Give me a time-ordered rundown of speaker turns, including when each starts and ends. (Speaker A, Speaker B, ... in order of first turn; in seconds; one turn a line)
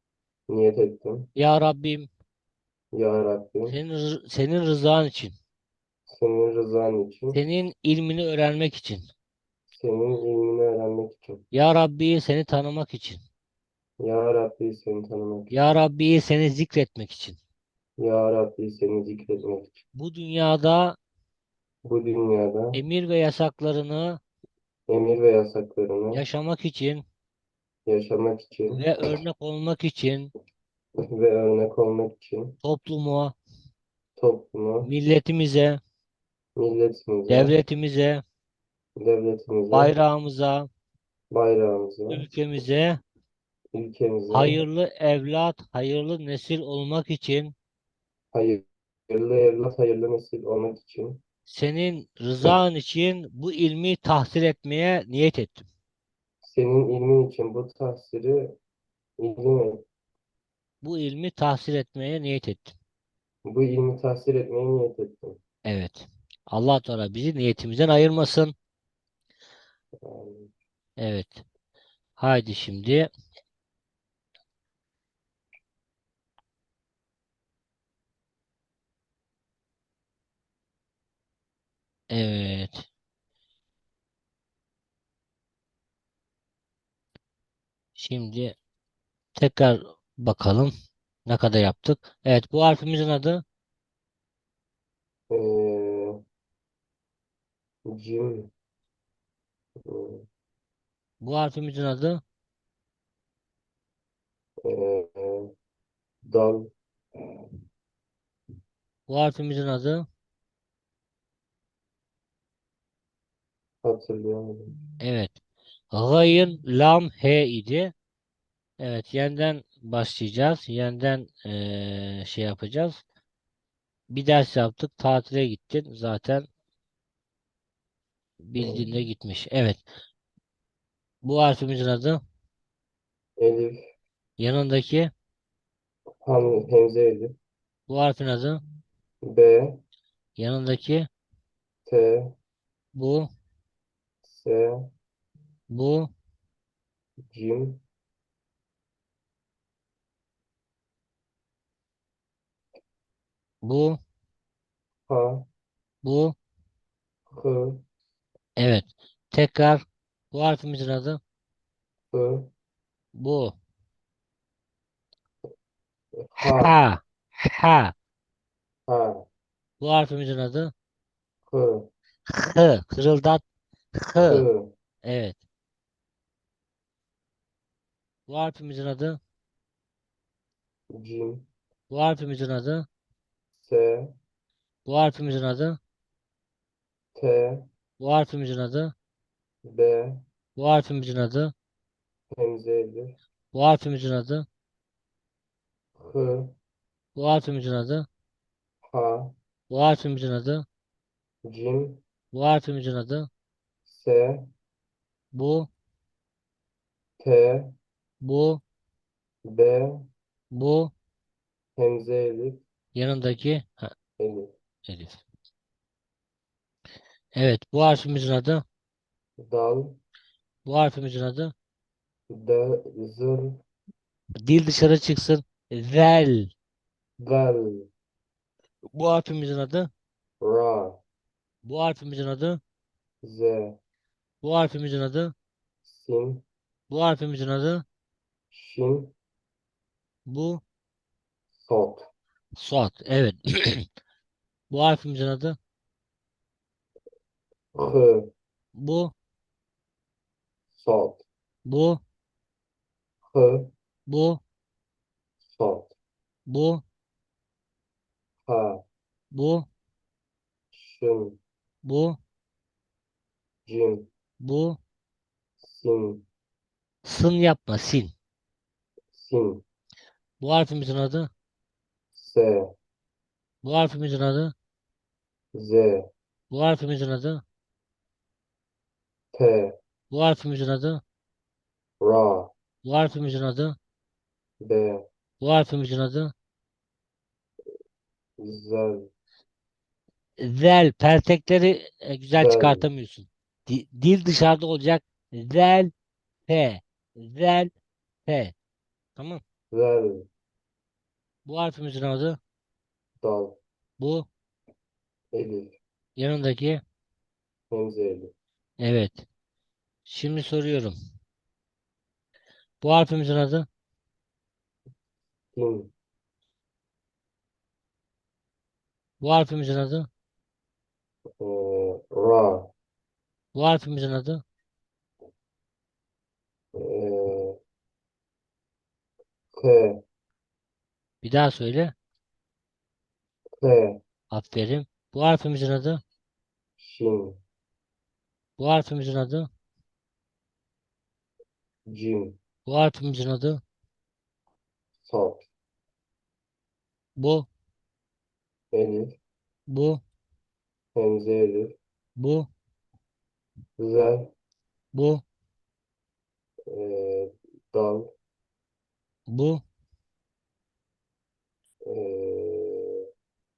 Speaker A: 0.5-1.3
Speaker B: 1.4-2.1
Speaker A: 2.9-3.8
Speaker B: 3.7-5.3
Speaker A: 6.1-7.4
Speaker B: 7.3-9.1
Speaker A: 9.7-11.4
Speaker B: 11.5-13.2
Speaker A: 14.0-15.5
Speaker B: 15.5-17.4
Speaker A: 18.0-19.8
Speaker B: 19.9-21.0
Speaker A: 21.9-22.8
Speaker B: 22.7-24.2
Speaker A: 24.9-26.2
Speaker B: 26.1-27.0
Speaker A: 27.9-29.1
Speaker B: 28.7-30.3
Speaker A: 31.1-32.6
Speaker B: 32.6-33.4
Speaker A: 34.2-34.9
Speaker B: 34.8-35.8
Speaker A: 36.6-37.5
Speaker B: 37.3-38.2
Speaker A: 39.0-39.9
Speaker B: 39.7-40.7
Speaker A: 41.3-42.2
Speaker B: 42.1-43.0
Speaker A: 43.7-44.6
Speaker B: 44.3-47.5
Speaker A: 48.3-51.2
Speaker B: 51.5-55.6
Speaker A: 56.4-58.6
Speaker A: 59.2-59.8
Speaker B: 60.8-62.8
Speaker A: 63.5-65.4
Speaker B: 65.7-68.5
Speaker A: 70.0-70.5
Speaker B: 71.0-71.4
Speaker B: 72.2-73.1
Speaker B: 82.1-82.9
Speaker B: 88.0-88.5
Speaker B: 89.3-90.7
Speaker B: 91.3-93.4
Speaker A: 95.3-96.2
Speaker A: 97.9-98.5
Speaker A: 99.9-100.3
Speaker B: 101.2-102.2
Speaker A: 104.6-105.5
Speaker A: 106.2-106.7
Speaker B: 109.1-110.1
Speaker A: 113.8-114.7
Speaker B: 115.0-115.4
Speaker B: 115.9-117.9
Speaker B: 118.8-123.0
Speaker B: 124.1-126.5
Speaker B: 128.4-129.8
Speaker A: 128.6-128.9
Speaker B: 131.2-132.2
Speaker A: 133.4-133.8
Speaker B: 134.4-135.1
Speaker A: 136.2-137.4
Speaker B: 137.9-138.6
Speaker A: 139.2-139.8
Speaker B: 140.4-141.1
Speaker A: 141.9-142.3
Speaker B: 142.9-143.3
Speaker A: 144.2-144.9
Speaker B: 145.7-146.1
Speaker A: 147.3-147.8
Speaker B: 153.6-154.0
Speaker A: 155.1-155.5
Speaker B: 156.0-156.4
Speaker A: 157.3-157.8
Speaker B: 158.6-161.2
Speaker A: 162.1-162.5
Speaker B: 163.1-163.6
Speaker A: 166.2-166.8
Speaker B: 166.4-167.9
Speaker A: 168.9-169.3
Speaker B: 169.8-170.7
Speaker A: 171.5-171.9
Speaker B: 172.3-173.4
Speaker B: 174.0-174.5
Speaker A: 174.2-174.7
Speaker B: 175.0-175.4
Speaker B: 178.3-179.2
Speaker A: 180.9-181.5
Speaker B: 181.9-182.9
Speaker A: 183.6-184.2
Speaker B: 184.9-185.8
Speaker A: 187.2-187.7
Speaker B: 188.0-188.9
Speaker A: 189.6-190.2
Speaker B: 190.6-191.5
Speaker A: 192.3-193.2
Speaker B: 193.5-194.5
Speaker A: 196.0-196.6
Speaker B: 197.2-198.1
Speaker A: 198.9-199.3
Speaker B: 199.7-200.7
Speaker A: 201.4-202.0
Speaker B: 202.3-203.3
Speaker A: 203.9-204.5
Speaker B: 205.3-205.7
Speaker A: 207.2-207.8
Speaker B: 208.2-208.6
Speaker A: 209.4-210.1
Speaker B: 210.5-210.9
Speaker A: 211.8-212.6
Speaker B: 212.9-213.9
Speaker A: 214.2-214.5
Speaker B: 214.9-215.2
Speaker B: 217.3-218.6
Speaker A: 219.4-220.0
Speaker B: 220.7-221.5
Speaker A: 222.3-223.6
Speaker B: 224.4-226.5
Speaker A: 227.2-227.9
Speaker B: 228.9-229.9
Speaker A: 230.4-231.0
Speaker B: 231.6-232.6
Speaker A: 233.2-233.8
Speaker B: 234.4-235.3
Speaker A: 235.8-236.4
Speaker B: 236.9-237.8
Speaker A: 238.5-239.1
Speaker B: 240.3-240.6
Speaker A: 241.6-242.1
Speaker B: 242.6-243.9
Speaker B: 244.7-245.6
Speaker A: 247.8-248.3
Speaker B: 248.8-249.1
Speaker A: 250.8-251.2
Speaker B: 251.7-252.0
Speaker A: 253.3-253.7
Speaker B: 254.1-254.4
Speaker A: 255.5-255.9
Speaker B: 256.5-256.8
Speaker A: 258.5-258.9
Speaker B: 259.3-259.7
Speaker A: 260.7-261.4
Speaker B: 261.8-262.2
Speaker A: 263.7-264.1
Speaker B: 264.4-264.8
Speaker A: 265.6-266.3
Speaker B: 267.0-268.1
Speaker A: 269.1-269.6
Speaker B: 270.4-271.3
Speaker A: 272.1-272.7
Speaker B: 273.6-274.5
Speaker A: 275.5-276.1
Speaker B: 276.5-277.4
Speaker A: 279.3-279.8
Speaker B: 280.1-281.0
Speaker A: 282.0-282.5
Speaker B: 282.8-283.8
Speaker A: 284.6-285.1
Speaker B: 285.4-286.3
Speaker A: 288.4-289.1
Speaker B: 290.4-295.9
Speaker A: 292.4-292.9
Speaker B: 296.5-297.7
Speaker B: 298.3-298.5
Speaker B: 299.2-299.4
Speaker A: 299.7-300.3
Speaker B: 301.4-302.4
Speaker A: 303.2-303.6
Speaker B: 304.0-304.3
Speaker A: 305.3-305.8
Speaker B: 306.2-306.8
Speaker A: 307.7-308.3
Speaker B: 308.8-309.2
Speaker B: 310.1-311.0
Speaker B: 312.8-313.7
Speaker A: 315.5-315.9
Speaker B: 319.2-320.1
Speaker A: 321.4-322.7
Speaker B: 323.5-324.4
Speaker A: 326.8-327.6
Speaker A: 329.6-330.0
Speaker B: 331.2-331.9
Speaker A: 333.6-334.0
Speaker B: 334.3-336.0
Speaker A: 336.8-337.4
Speaker B: 338.6-339.5
Speaker A: 341.9-342.4
Speaker B: 342.7-343.6
Speaker A: 345.0-345.5
Speaker B: 347.2-347.5
Speaker A: 348.7-349.2
Speaker B: 349.7-350.0
Speaker A: 350.9-351.8
Speaker B: 352.2-352.5
Speaker A: 353.8-354.3
Speaker B: 354.9-355.2
Speaker A: 356.7-358.1
Speaker B: 359.3-359.6
Speaker A: 361.9-363.1